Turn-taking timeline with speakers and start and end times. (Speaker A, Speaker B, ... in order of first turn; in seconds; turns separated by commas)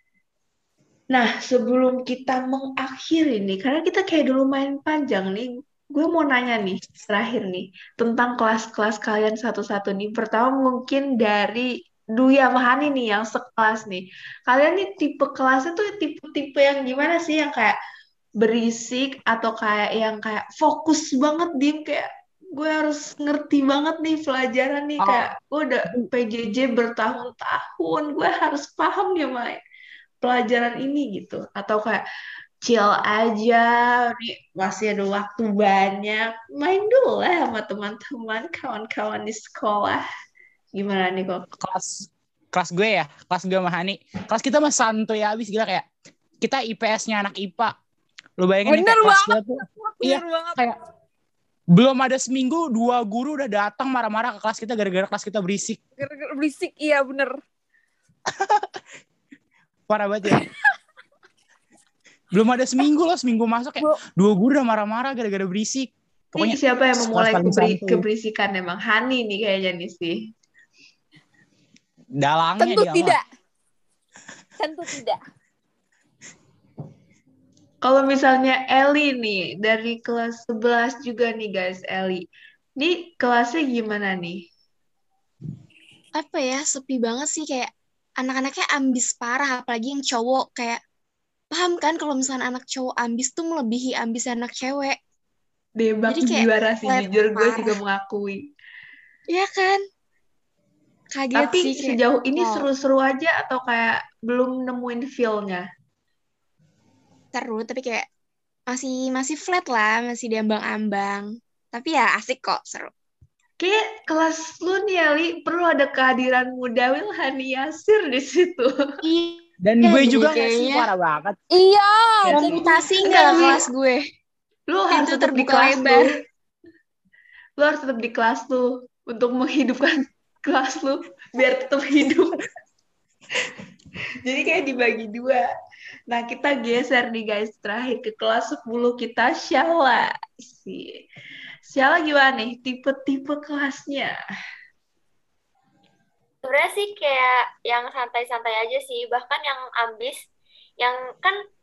Speaker A: 1.1-17.8, Speaker A: 18.4-29.6, Speaker B: 25.0-25.3, Speaker A: 30.2-32.0, Speaker A: 32.6-40.0, Speaker A: 40.7-41.5, Speaker B: 41.6-45.9, Speaker B: 46.4-47.7, Speaker B: 48.4-50.8, Speaker C: 48.6-50.7, Speaker B: 51.7-55.8, Speaker C: 56.0-57.4, Speaker B: 58.4-58.7, Speaker B: 59.9-60.4, Speaker B: 62.3-68.1, Speaker A: 66.3-70.2, Speaker B: 72.2-73.2, Speaker C: 72.6-73.2, Speaker C: 74.6-75.2, Speaker A: 77.8-82.2, Speaker A: 82.8-84.4, Speaker D: 86.1-90.8, Speaker D: 91.5-95.0, Speaker A: 95.8-98.4, Speaker D: 96.1-97.8, Speaker D: 99.3-99.8, Speaker D: 101.1-102.7, Speaker A: 101.3-105.7, Speaker D: 107.3-108.1, Speaker D: 108.7-112.9, Speaker A: 113.6-118.7, Speaker D: 119.0-120.9, Speaker B: 119.6-121.4, Speaker E: 121.6-121.9, Speaker C: 121.9-122.6, Speaker A: 122.3-123.6, Speaker D: 122.3-124.0, Speaker A: 124.7-126.1, Speaker D: 124.9-126.1, Speaker A: 127.6-132.4, Speaker A: 134.2-135.5, Speaker A: 136.1-141.0, Speaker A: 141.7-144.1, Speaker E: 146.4-150.2, Speaker E: 150.8-151.3